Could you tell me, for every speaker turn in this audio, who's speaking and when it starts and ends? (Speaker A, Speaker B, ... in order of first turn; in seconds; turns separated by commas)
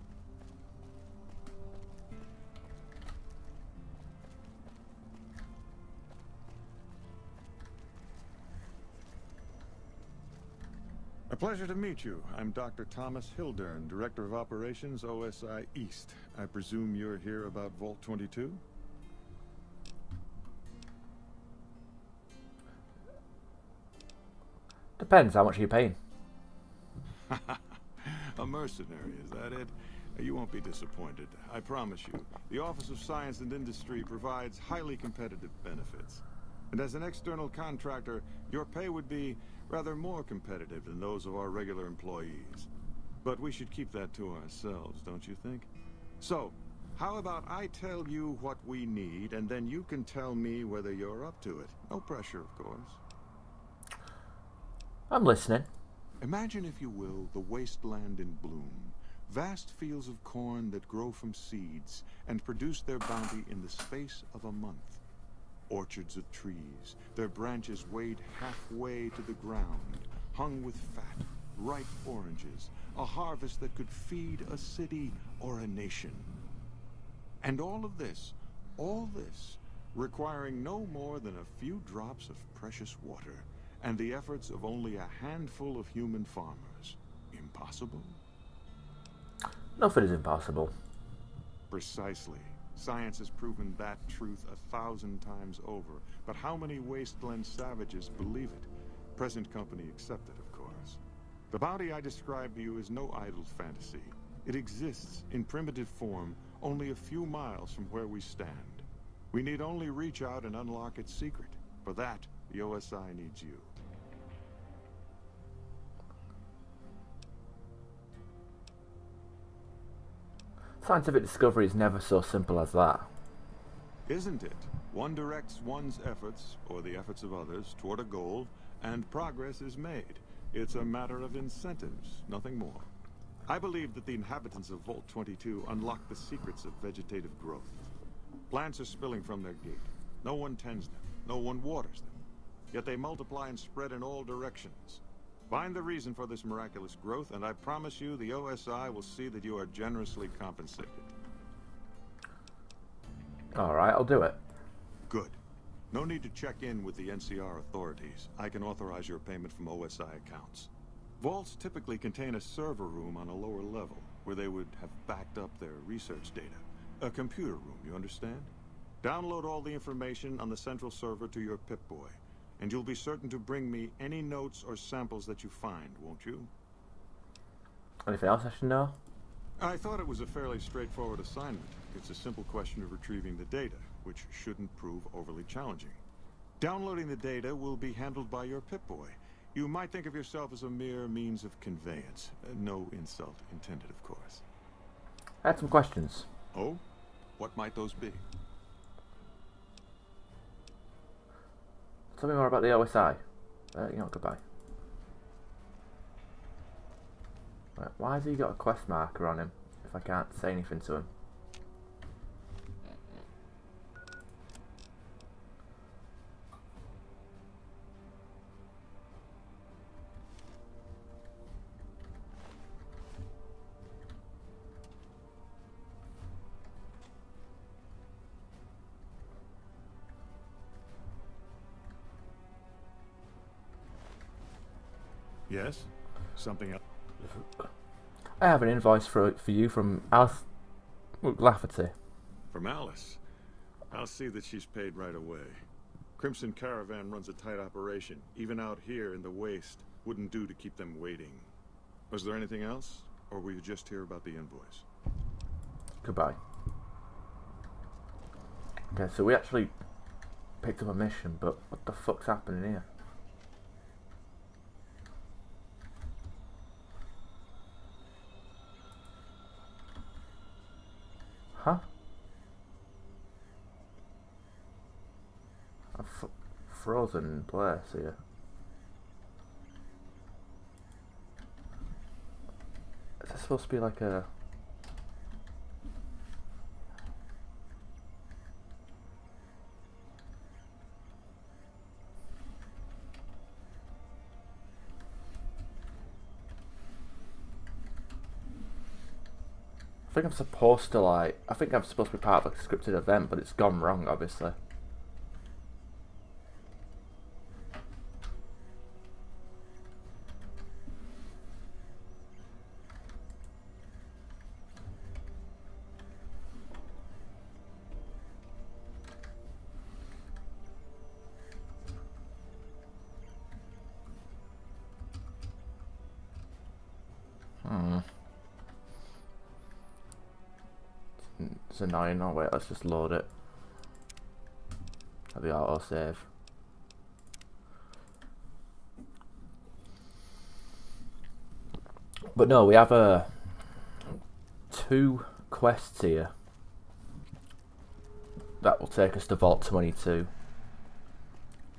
Speaker A: 11.3-18.6, Speaker B: 25.0-26.0, Speaker A: 27.3-42.7, Speaker A: 43.2-45.7, Speaker A: 46.2-53.0, Speaker B: 55.1-55.7, Speaker A: 56.2-65.0, Speaker A: 65.7-76.3, Speaker A: 77.4-88.2, Speaker B: 89.8-90.7, Speaker A: 91.7-101.0, Speaker A: 101.5-113.7, Speaker B: 120.8-123.1, Speaker A: 124.0-132.9, Speaker A: 133.5-137.8, Speaker A: 138.5-142.2, Speaker A: 142.7-151.1, Speaker B: 153.6-154.4, Speaker A: 155.1-155.4, Speaker A: 155.9-168.5, Speaker A: 169.0-176.5, Speaker B: 178.1-179.0, Speaker A: 179.6-186.0, Speaker A: 186.6-194.4, Speaker B: 195.4-196.3, Speaker A: 196.5-196.8, Speaker A: 197.4-198.2, Speaker B: 202.1-203.2, Speaker B: 203.7-204.4, Speaker B: 207.8-211.1, Speaker A: 235.5-236.8, Speaker B: 238.4-240.5, Speaker B: 241.2-241.9, Speaker A: 242.5-243.2, Speaker A: 243.9-245.6, Speaker A: 246.2-251.5, Speaker A: 252.1-254.8, Speaker B: 256.0-256.4, Speaker B: 258.9-259.7, Speaker B: 260.6-262.9, Speaker B: 271.6-271.9, Speaker B: 275.9-278.2, Speaker B: 283.2-284.3, Speaker B: 300.1-304.6, Speaker B: 327.6-328.1, Speaker B: 331.4-333.3, Speaker B: 335.3-336.2, Speaker B: 342.4-343.4, Speaker B: 344.7-346.3, Speaker B: 348.6-350.3